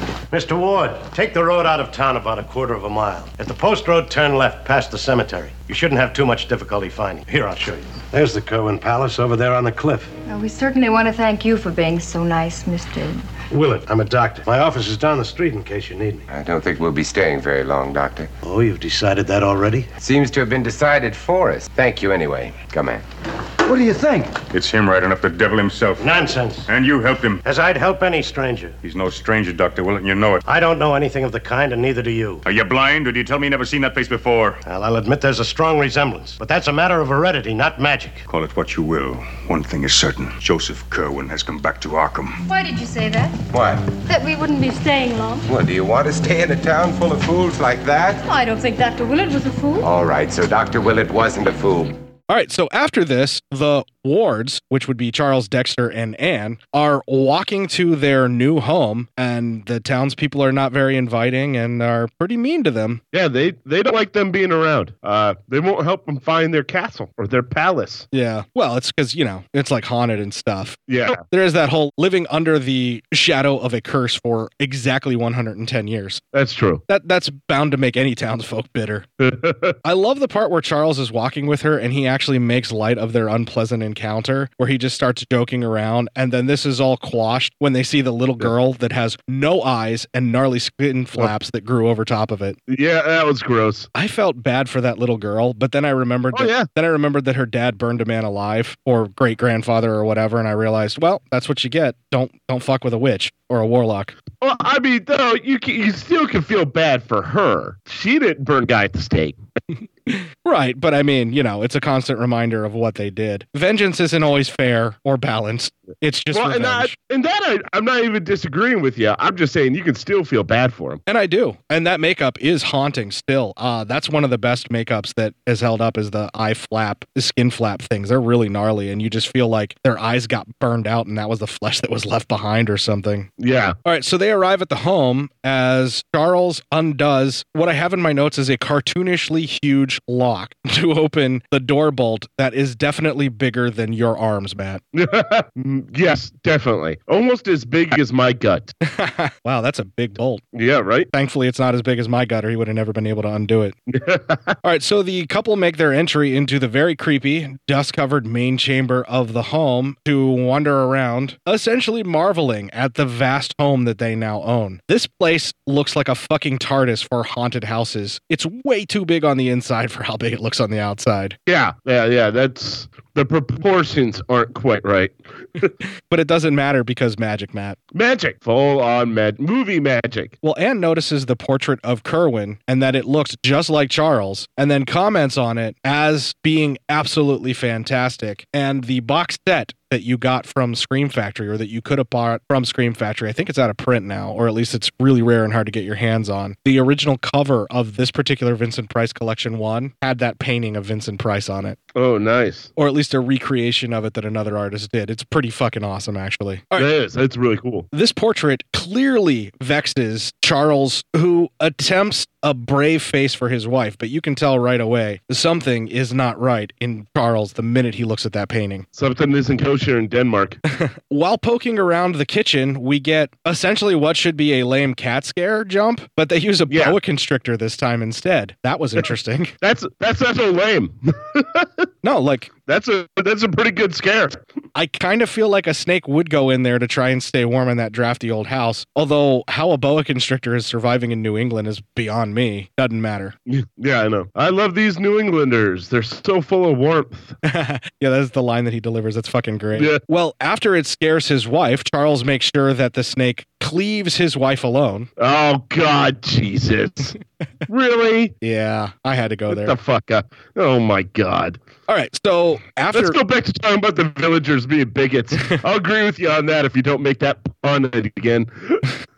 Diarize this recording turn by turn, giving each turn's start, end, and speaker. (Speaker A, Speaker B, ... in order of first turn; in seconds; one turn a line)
Speaker A: 0.3-10.1
Speaker B: 10.2-13.3
Speaker A: 13.5-16.2
Speaker C: 16.3-18.3
Speaker A: 18.4-19.9
Speaker C: 20.0-23.0
Speaker D: 24.5-26.1
Speaker A: 26.0-26.6
Speaker D: 26.6-27.4
Speaker A: 27.4-28.8
Speaker D: 28.8-30.4
Speaker A: 30.4-32.4
Speaker D: 32.4-34.6
Speaker A: 34.6-38.2
Speaker D: 38.3-42.4
Speaker B: 42.5-43.4
Speaker C: 43.5-43.9
Speaker B: 44.1-45.5
Speaker C: 45.5-48.2
Speaker B: 48.2-49.9
Speaker C: 49.8-51.9
Speaker E: 52.3-63.0
Speaker F: 63.1-68.1
Speaker E: 68.1-70.8
Speaker F: 70.9-71.2
Speaker E: 71.3-76.2
Speaker F: 76.3-76.8
Speaker E: 76.9-79.1
Speaker F: 79.2-79.7
Speaker E: 79.8-92.6
Speaker F: 92.7-93.9
Speaker E: 93.9-104.1
Speaker F: 96.3-96.7
Speaker F: 104.4-109.4
Speaker E: 110.1-116.9
Speaker F: 116.3-121.0
Speaker E: 121.1-133.3
Speaker F: 133.4-133.7
Speaker E: 133.8-144.8
Speaker F: 144.9-148.7
Speaker E: 148.8-150.4
Speaker F: 150.5-151.1
Speaker E: 151.1-153.7
Speaker F: 153.9-154.5
Speaker E: 154.6-171.3
Speaker F: 171.5-175.7
Speaker E: 176.1-177.8
Speaker F: 177.9-180.3
Speaker E: 180.4-201.8
Speaker F: 201.9-202.7
Speaker E: 202.8-206.9
Speaker F: 206.8-207.8
Speaker E: 207.9-218.8
Speaker F: 218.9-220.6
Speaker E: 220.7-229.5
Speaker F: 226.7-226.9
Speaker F: 229.6-231.7
Speaker E: 232.0-232.5
Speaker F: 232.7-234.4
Speaker E: 234.7-243.3
Speaker F: 243.5-247.3
Speaker E: 247.4-255.1
Speaker F: 255.2-257.1
Speaker F: 257.7-258.3
Speaker E: 258.4-259.7
Speaker F: 259.5-261.6
Speaker E: 261.9-263.2
Speaker F: 262.9-268.8